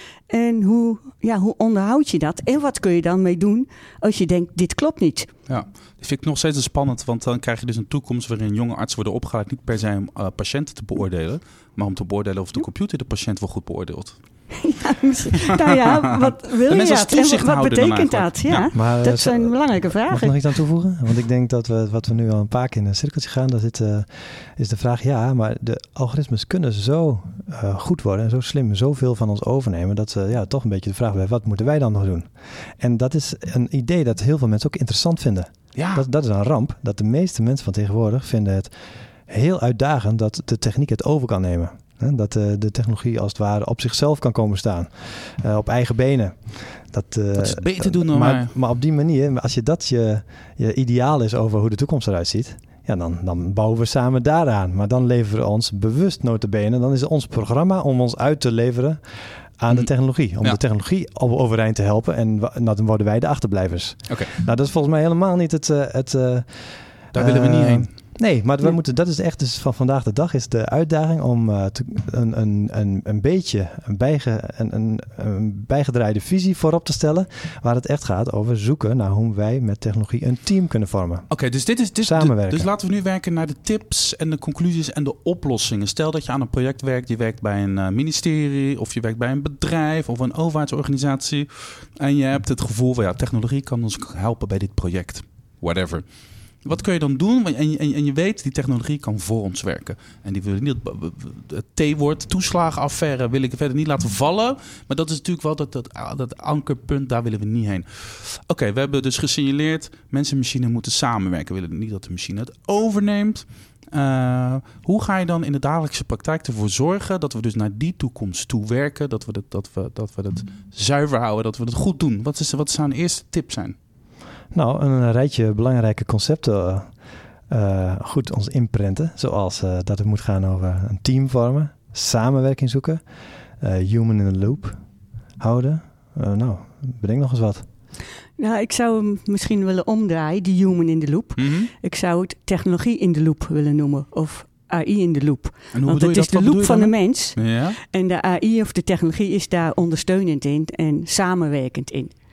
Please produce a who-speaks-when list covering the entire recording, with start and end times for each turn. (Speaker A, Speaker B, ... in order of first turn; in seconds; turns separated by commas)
Speaker A: 0.3-5.3, Speaker B: 5.5-14.2, Speaker A: 14.6-20.6, Speaker B: 16.7-18.7, Speaker C: 18.7-38.7, Speaker B: 35.8-36.1, Speaker C: 39.3-81.3, Speaker B: 47.4-48.5, Speaker B: 67.1-67.9, Speaker B: 81.3-96.1, Speaker C: 82.0-82.7, Speaker B: 96.6-123.8, Speaker C: 124.5-126.9, Speaker C: 127.5-133.0, Speaker C: 133.6-134.8, Speaker C: 135.4-137.6, Speaker A: 138.4-152.1, Speaker B: 141.4-141.7, Speaker B: 145.7-147.8